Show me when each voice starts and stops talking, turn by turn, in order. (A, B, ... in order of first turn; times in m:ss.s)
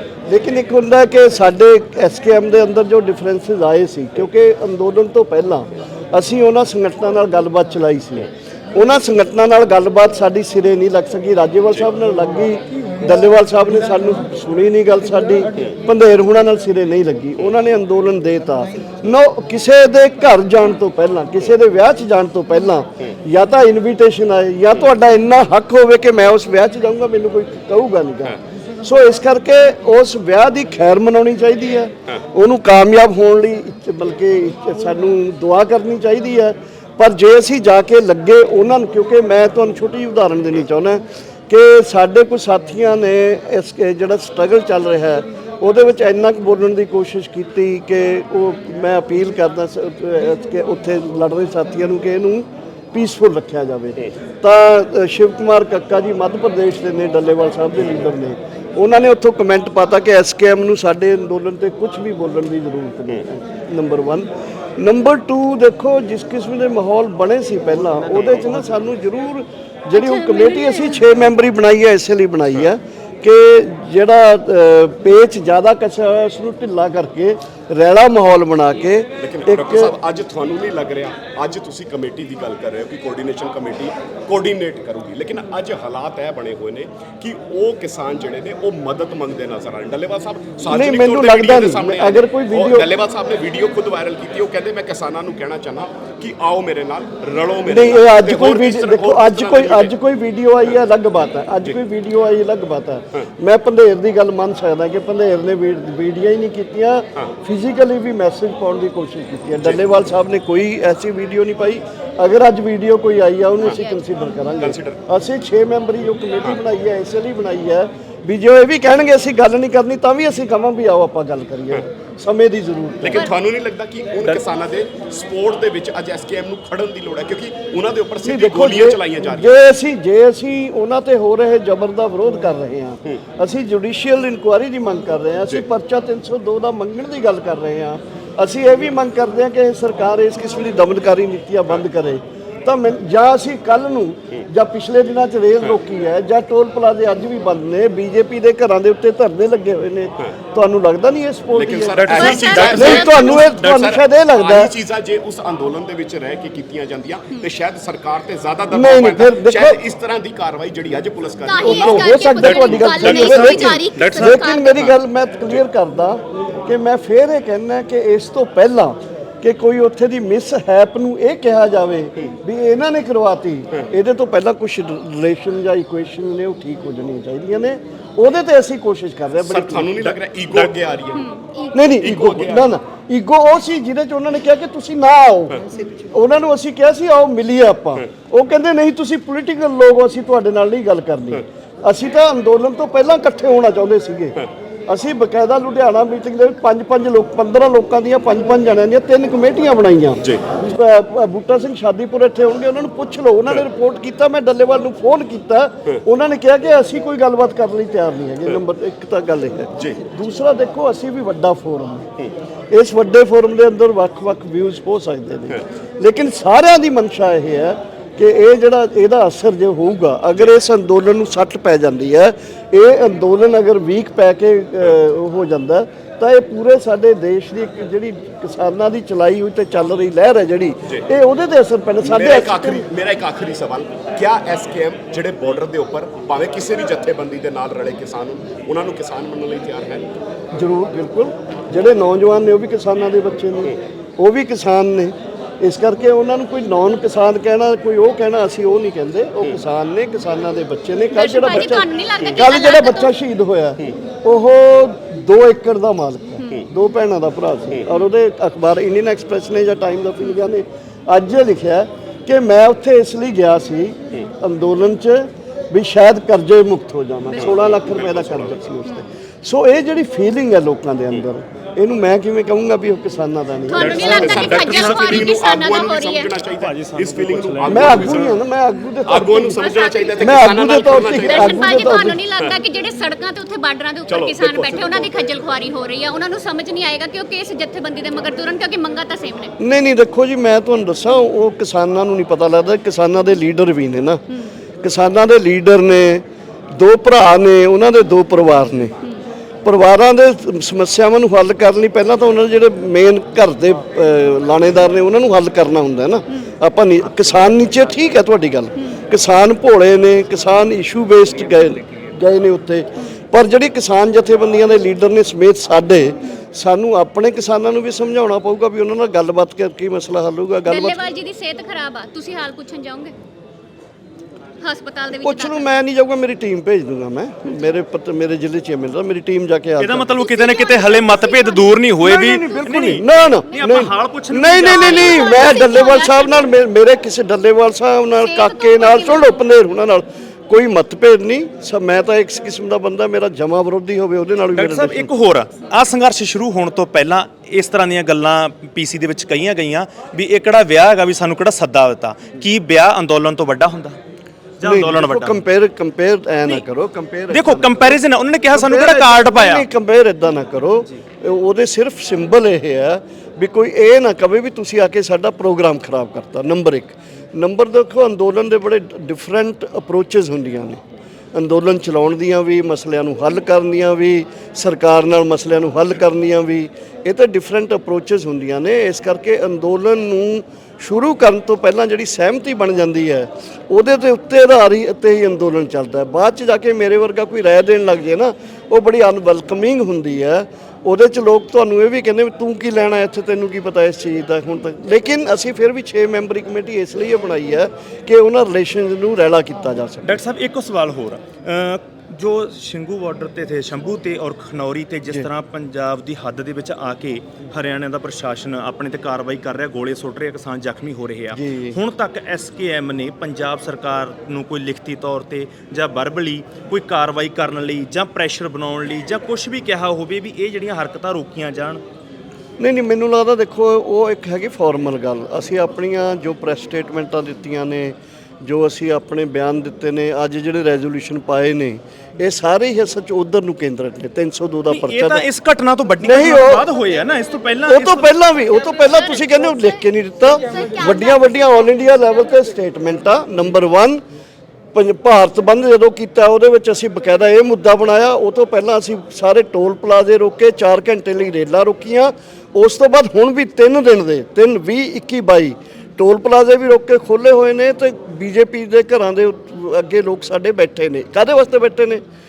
0:00.3-1:19.9 A
1:10.0-1:10.9 B
1:19.2-1:39.9 C
1:30.7-1:32.9 A
1:37.7-2:03.3 A
1:54.6-1:55.0 C
2:03.0-2:09.6 C
2:08.2-2:34.8 A
2:31.5-2:44.9 C
2:32.0-2:33.1 D
2:32.2-2:33.4 B
2:38.7-2:39.8 A
2:41.5-2:44.9 B
2:41.6-3:00.0 A
2:44.0-2:44.4 D
2:59.4-3:01.4 C
3:00.0-3:00.7 D
3:01.7-3:32.1 A
3:01.9-3:02.7 C
3:32.7-3:52.9 A
3:52.0-4:00.1 C
4:00.6-4:34.6 A
4:11.1-4:13.1 B
4:27.4-4:28.6 C
4:33.7-4:36.4 B
4:33.7-4:38.4 C
4:34.6-4:35.4 D
4:36.6-4:38.3 D
4:37.7-4:42.2 A
4:39.1-4:41.7 C
4:39.6-4:40.4 B
4:41.0-4:49.5 B
4:44.1-4:45.3 C
4:49.6-4:54.2 A
4:54.8-4:58.9 A
4:59.6-5:21.0 A
5:20.7-5:23.1 B
5:24.6-5:25.7 B
5:25.2-5:30.2 A
5:29.8-5:35.6 D
5:30.2-5:31.7 B
5:32.0-5:45.1 A
5:34.7-5:36.5 B
5:38.2-5:39.3 B
5:44.6-5:54.0 D
5:54.6-5:55.4 D
5:54.6-5:58.0 A
5:57.3-5:59.7 D
5:58.5-6:10.8 A
6:11.3-6:40.2 A
6:40.0-7:01.8 D
6:51.3-6:51.8 A
7:02.6-7:15.3 A
7:14.7-7:18.2 D
7:16.0-7:16.7 A
7:17.7-7:24.0 A
7:18.4-7:19.7 B
7:20.4-7:21.1 B
7:24.7-7:42.0 A